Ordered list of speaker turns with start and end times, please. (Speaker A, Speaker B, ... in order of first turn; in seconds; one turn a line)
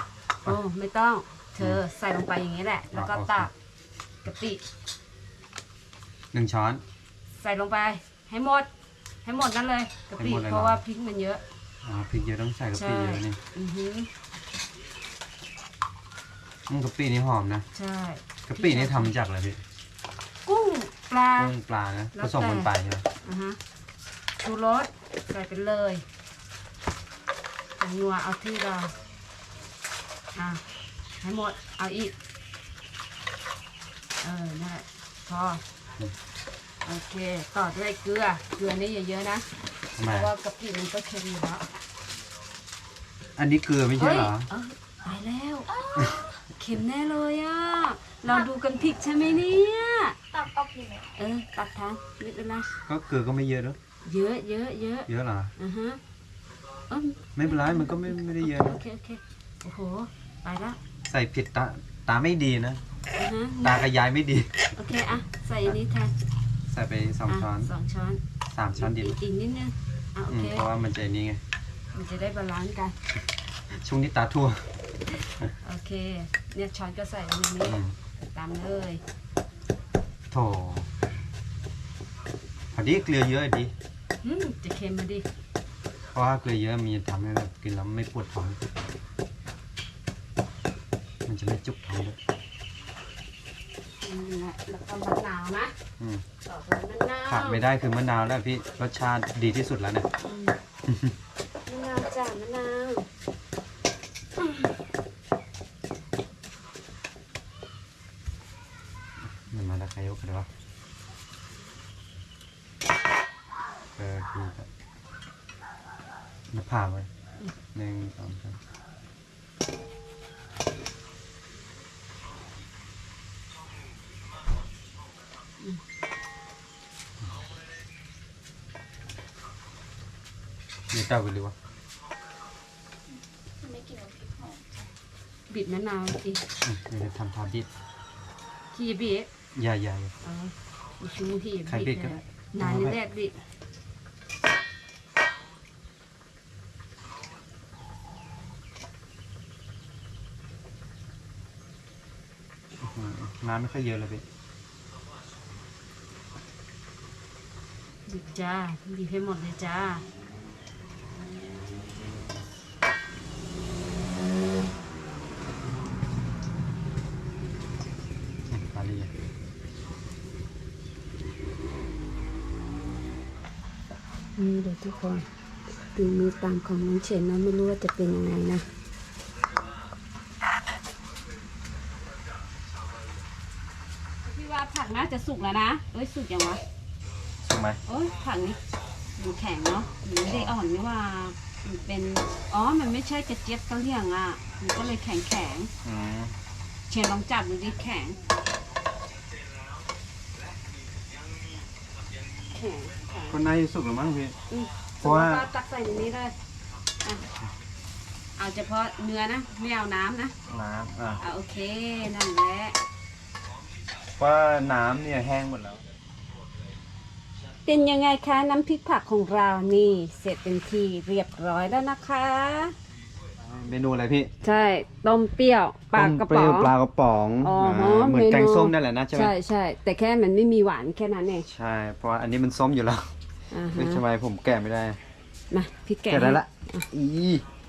Speaker A: 0.5-3.5
Speaker B: 2.9-3.5
Speaker A: 4.2-4.6
Speaker B: 6.3-6.8
Speaker A: 7.4-8.7
Speaker A: 9.2-11.4
Speaker B: 10.2-10.8
Speaker B: 11.8-13.4
Speaker A: 12.7-14.1
Speaker B: 16.7-17.6
Speaker A: 17.7-19.1
Speaker B: 18.5-19.6
Speaker A: 20.4-21.5
Speaker B: 21.4-23.0
Speaker A: 22.1-22.7
Speaker A: 23.2-23.6
Speaker A: 24.4-26.0
Speaker A: 27.8-28.9
Speaker A: 30.3-30.6
Speaker A: 31.2-32.1
Speaker A: 34.2-35.6
Speaker A: 36.8-39.5
Speaker B: 40.0-40.3
Speaker A: 40.0-41.6
Speaker B: 43.4-44.5
Speaker A: 44.0-50.2
Speaker C: 50.3-51.0
Speaker A: 51.1-52.7
Speaker B: 52.9-53.8
Speaker A: 54.0-56.0
Speaker B: 55.1-55.5
Speaker A: 56.9-60.8
Speaker B: 57.4-58.8
Speaker B: 61.0-62.8
Speaker A: 63.1-63.8
Speaker B: 63.6-64.5
Speaker A: 64.7-66.1
Speaker B: 66.7-67.7
Speaker A: 67.3-68.2
Speaker B: 68.5-69.2
Speaker A: 68.8-70.7
Speaker B: 70.3-71.4
Speaker A: 71.9-72.9
Speaker B: 73.7-74.6
Speaker A: 75.6-77.8
Speaker B: 77.6-77.9
Speaker A: 78.3-79.0
Speaker B: 80.3-80.8
Speaker B: 82.7-83.7
Speaker A: 84.2-85.2
Speaker B: 86.1-88.6
Speaker B: 91.2-92.2
Speaker A: 94.0-95.7
Speaker A: 96.4-97.6
Speaker B: 97.3-100.1
Speaker A: 100.2-100.5
Speaker B: 100.9-101.1
Speaker A: 101.7-103.0
Speaker B: 109.5-110.5
Speaker B: 114.0-114.7
Speaker B: 116.5-117.1
Speaker B: 117.7-118.6
Speaker B: 130.9-131.5
Speaker C: 133.6-134.8
Speaker A: 135.5-136.4
Speaker B: 136.6-137.7
Speaker A: 138.7-139.3
Speaker B: 139.5-140.1
Speaker A: 140.2-143.3
Speaker B: 141.7-143.0
Speaker B: 152.8-154.2
Speaker A: 158.1-160.0
Speaker B: 168.5-169.1
Speaker A: 174.4-175.2
Speaker A: 175.9-178.6
Speaker A: 184.2-186.6
Speaker B: 187.4-187.8
Speaker A: 187.8-188.6
Speaker A: 189.2-195.7
Speaker B: 190.2-190.5
Speaker B: 195.8-196.3
Speaker A: 196.9-198.2
Speaker A: 202.5-203.3
Speaker B: 203.3-204.3
Speaker A: 204.5-206.3
Speaker B: 205.0-205.4
Speaker A: 208.4-210.3
Speaker B: 210.5-211.2
Speaker A: 211.2-212.8
Speaker B: 214.2-215.8
Speaker A: 217.6-222.7
Speaker B: 223.4-224.3
Speaker A: 224.4-226.7
Speaker B: 225.9-229.3
Speaker A: 227.4-231.4
Speaker B: 231.5-233.1
Speaker A: 233.5-234.0
Speaker B: 233.7-235.0
Speaker A: 235.5-236.9
Speaker B: 236.1-237.4